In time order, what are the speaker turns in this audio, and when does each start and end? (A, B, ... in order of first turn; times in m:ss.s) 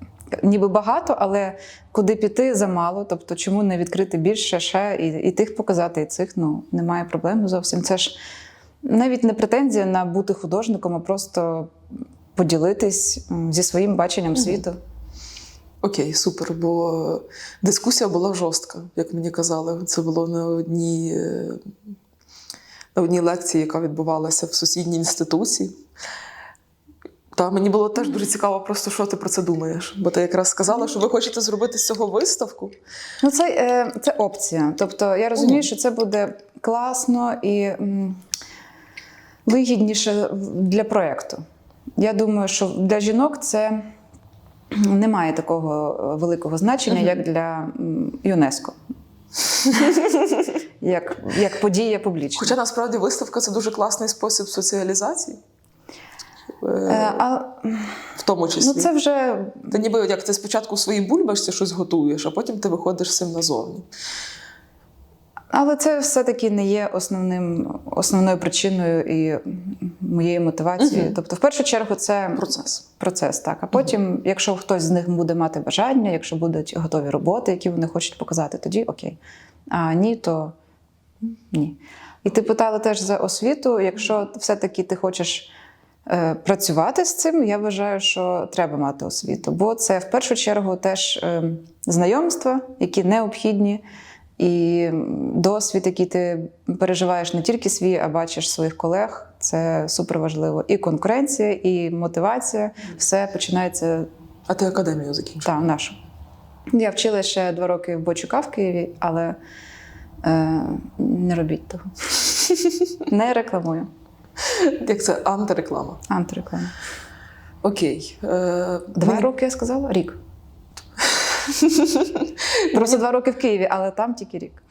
0:00.3-0:08.2 A
0:08.8-0:11.7 A
0:12.3-0:14.8 A
0:14.3-0:14.6 B
0:15.8-0:21.7 B
0:22.9-0:25.7 B
0:27.3-0:32.7 B
0:33.2-0:38.2 A
0:35.4-0:35.6 B
0:39.4-0:41.4 A
0:42.0-0:43.9 A
0:44.7-0:48.8 A
0:50.8-0:52.6 A
0:52.4-0:55.4 B
0:56.6-0:57.2 B
0:56.9-0:58.0 A
0:58.2-0:58.9 B
0:58.6-0:59.7 A
0:59.7-1:03.8 B
1:05.5-1:19.2 A
1:10.8-1:11.1 B
1:19.7-1:20.5 A
1:21.5-1:25.5 A
1:26.1-1:33.8 A
1:34.4-1:44.1 A
1:44.5-1:45.5 B
1:45.4-1:46.0 A
1:46.7-1:49.4 A
1:50.2-1:52.3 A
1:53.1-1:53.9 A
1:54.4-1:56.0 B
1:56.1-1:56.7 A
1:57.6-1:59.3 B
1:58.9-2:00.2 A
2:01.4-2:03.0 B
2:02.7-2:04.6 A